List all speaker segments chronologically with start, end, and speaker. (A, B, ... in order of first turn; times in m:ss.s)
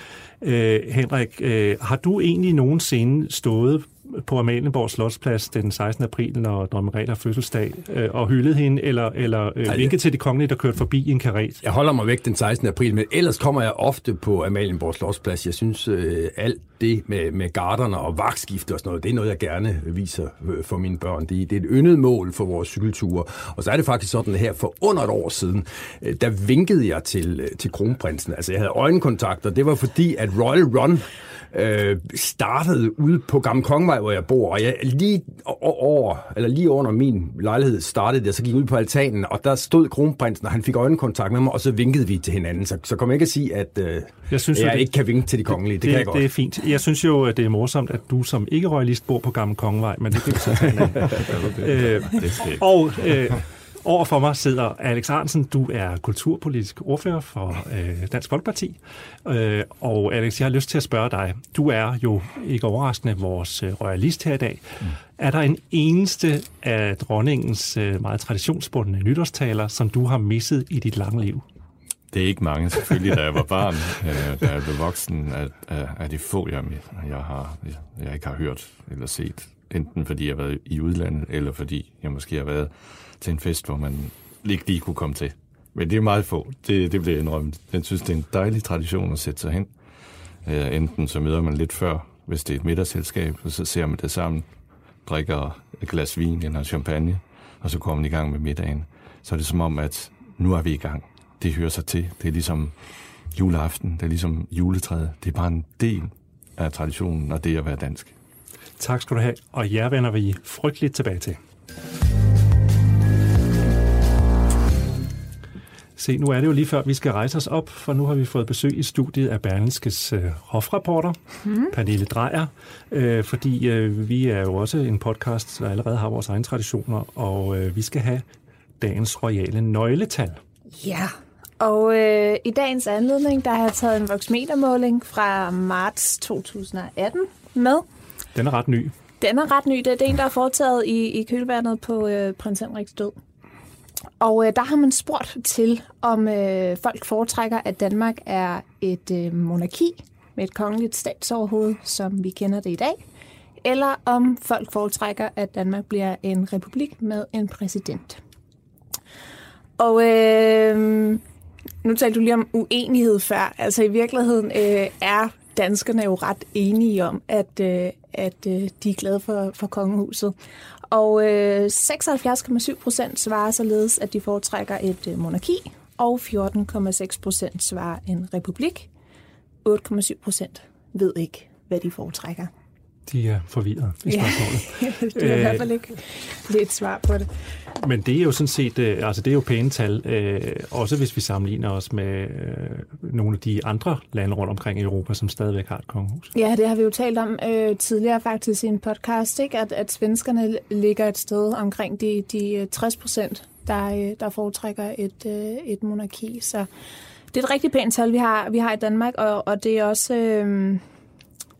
0:00.4-0:11.6 A
0:09.7-0:09.9 B
0:11.6-0:46.2 B
0:44.3-0:44.9 A
0:45.5-1:11.4 A
0:51.2-0:52.7 C
1:12.1-1:29.7 C
1:30.4-1:34.4 C
1:35.0-1:42.7 C
1:43.3-1:48.1 C
1:48.8-1:51.4 A
1:56.0-2:01.2 A
2:01.7-2:08.2 A
2:08.8-2:10.4 A
2:10.8-2:17.8 D
2:18.3-2:18.9 A
2:19.2-2:23.2 D
2:24.2-2:33.0 D
2:33.6-2:38.2 D
2:39.8-2:41.2 D
2:41.8-2:50.3 D
2:50.9-2:58.9 D
2:59.6-3:02.5 D
3:03.1-3:05.7 A
3:04.0-3:07.3 D
3:07.8-3:16.3 A
3:16.3-3:26.7 D
3:27.3-3:30.8 D